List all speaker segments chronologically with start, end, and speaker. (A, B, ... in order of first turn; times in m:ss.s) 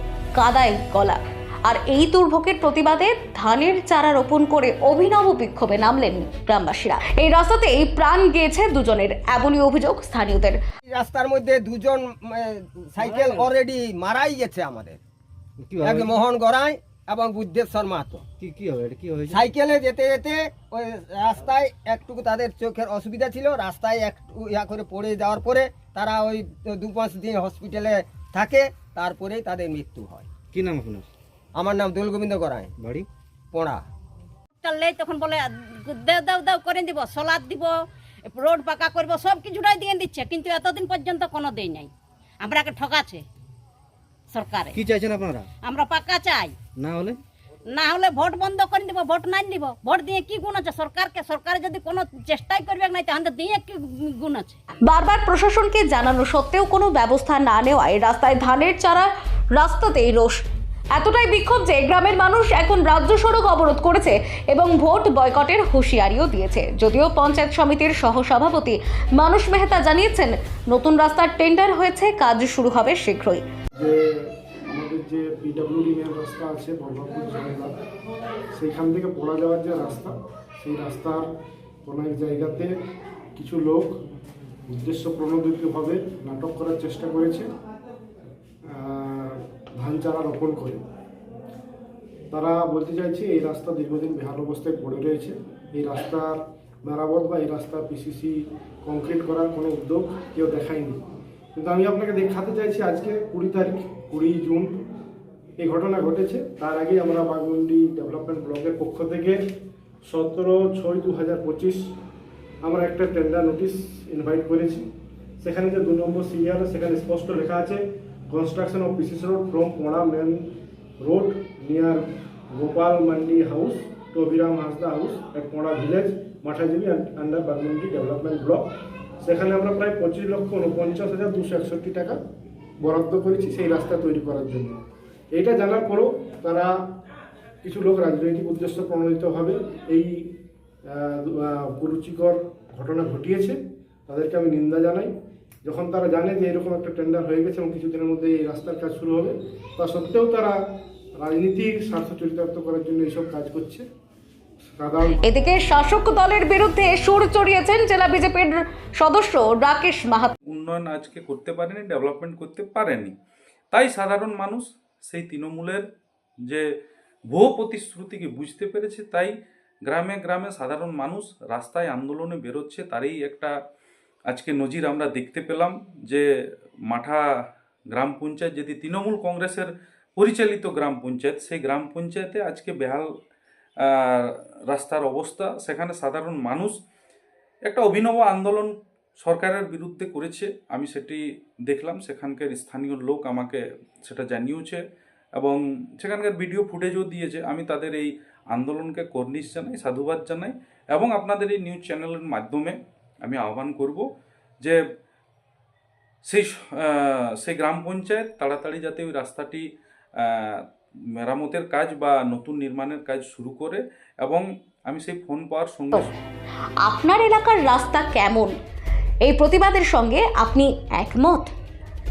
0:00.4-0:10.6 A
0:10.9-0:15.0 B
0:13.0-0:13.5 C
0:15.7-0:16.2 C
0:15.8-0:18.2 B
0:18.4-0:19.4 C
0:19.3-0:30.3 B
0:30.5-0:31.1 C
0:31.6-0:32.7 B
0:32.8-0:33.1 C
0:33.5-0:33.8 B
0:34.6-0:37.7 D
0:38.3-0:41.9 D
0:42.4-0:43.2 D
0:44.3-0:44.7 D
0:44.7-0:45.5 C
0:45.6-0:46.6 D
0:46.8-0:47.2 C
0:47.7-0:54.6 D
0:54.9-1:00.4 A
1:00.9-1:13.4 A
1:13.8-1:17.7 E
1:18.6-1:21.3 E
1:21.8-1:22.7 E
1:23.4-1:24.0 E
1:24.7-1:27.5 E
1:28.7-1:30.8 E
1:32.3-1:41.0 E
1:41.6-1:44.8 E
1:45.6-1:49.4 E
1:50.1-1:51.9 E
1:52.6-1:54.8 E
1:55.4-2:00.5 E
2:01.0-2:08.7 E
2:09.2-2:12.2 E
2:12.8-2:14.8 E
2:15.3-2:16.7 E
2:17.6-2:20.3 E
2:20.9-2:25.1 E
2:25.6-2:30.6 E
2:31.2-2:33.9 E
2:34.8-2:35.2 E
2:35.2-2:40.3 A
2:40.5-2:43.1 F
2:43.7-2:45.8 F
2:47.3-2:49.3 F
2:49.9-2:53.5 F
2:54.3-2:56.2 F
2:56.9-2:57.2 F
2:57.9-3:03.0 F
3:03.8-3:06.8 F
3:07.7-3:14.8 F
3:15.4-3:24.0 F
3:26.3-3:29.6 F
3:30.2-3:30.6 F
3:31.2-3:36.1 F
3:36.8-3:38.5 A
3:39.2-3:41.5 A